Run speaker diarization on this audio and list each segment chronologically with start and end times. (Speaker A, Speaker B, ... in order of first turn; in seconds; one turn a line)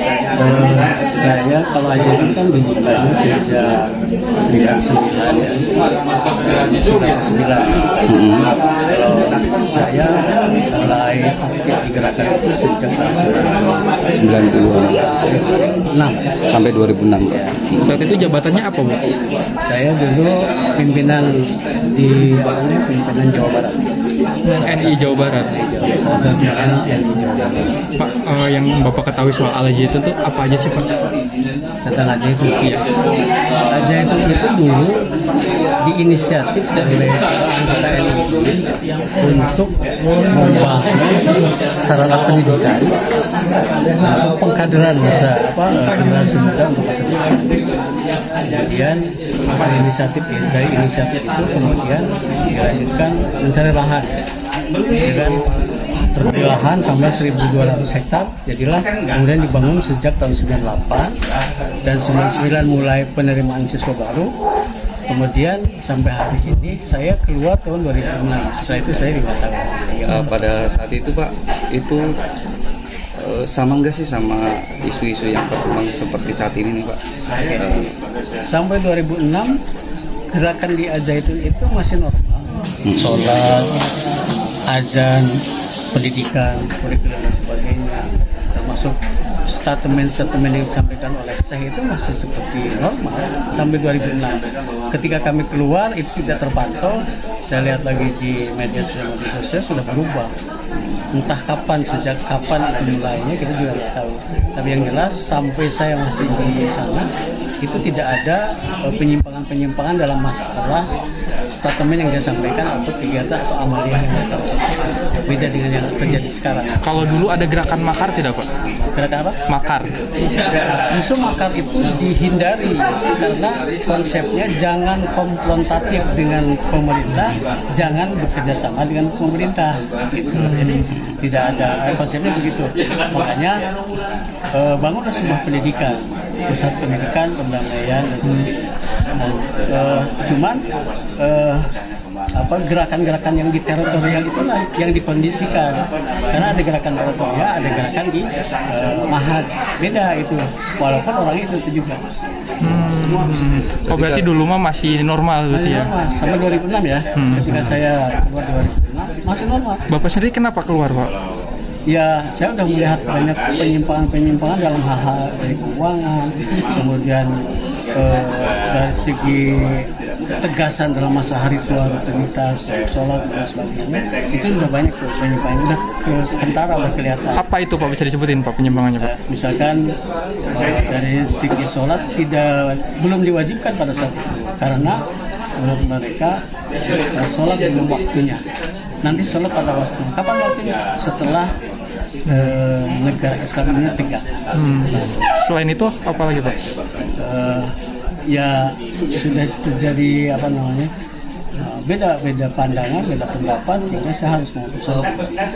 Speaker A: 0.4-3.9
Speaker A: 4.4-5.7
Speaker A: 6.4-8.1
Speaker B: 8.1-8.5
Speaker A: 8.9-10.1
Speaker A: 10.7-13.7
Speaker B: 14.2-15.4
Speaker A: 15.9-16.2
Speaker B: 16.5-17.9
Speaker C: 17.8-19.0
Speaker A: 19.7-21.3
Speaker A: 21.9-23.8
Speaker C: 24.4-25.5
Speaker A: 24.6-27.7
Speaker C: 28.0-30.9
Speaker A: 31.9-32.7
Speaker A: 33.7-35.0
Speaker A: 35.9-38.6
Speaker A: 39.1-39.7
Speaker A: 40.3-41.3
Speaker A: 41.8-43.0
Speaker A: 44.0-47.6
Speaker A: 48.5-54.1
Speaker A: 55.0-55.4
Speaker A: 56.1-61.1
Speaker A: 61.9-64.3
Speaker A: 65.1-70.0
Speaker B: 70.0-72.0
Speaker B: 73.2-77.0
Speaker A: 77.3-77.6
Speaker B: 77.6-77.8
Speaker A: 78.5-79.6
Speaker A: 80.3-83.7
Speaker A: 84.7-85.4
Speaker A: 85.9-89.0
Speaker A: 89.5-100.3
Speaker A: 101.2-107.1
Speaker A: 107.6-110.9
Speaker A: 111.5-114.6
Speaker A: 115.2-116.8
Speaker C: 116.8-118.5
Speaker A: 119.0-119.4
Speaker C: 119.5-119.9
Speaker A: 120.9-133.6
Speaker C: 130.4-130.9
Speaker A: 134.5-138.5
Speaker C: 138.2-138.5
Speaker A: 139.2-140.6
Speaker A: 141.2-141.7
Speaker A: 142.4-152.0
Speaker C: 152.6-155.9
Speaker B: 153.9-154.3
Speaker A: 155.5-159.8
Speaker C: 157.2-157.8
Speaker C: 159.9-161.1
Speaker A: 161.9-167.3
Speaker A: 167.9-169.9
Speaker A: 170.4-177.4
Speaker C: 177.4-179.1
Speaker A: 179.0-179.8
Speaker A: 180.5-185.0
Speaker A: 185.6-186.4
Speaker A: 187.1-188.4
Speaker A: 189.0-191.5
Speaker C: 192.3-192.6
Speaker A: 192.3-194.3
Speaker C: 194.6-196.6
Speaker A: 197.2-197.7
Speaker A: 198.3-200.9
Speaker A: 201.6-205.1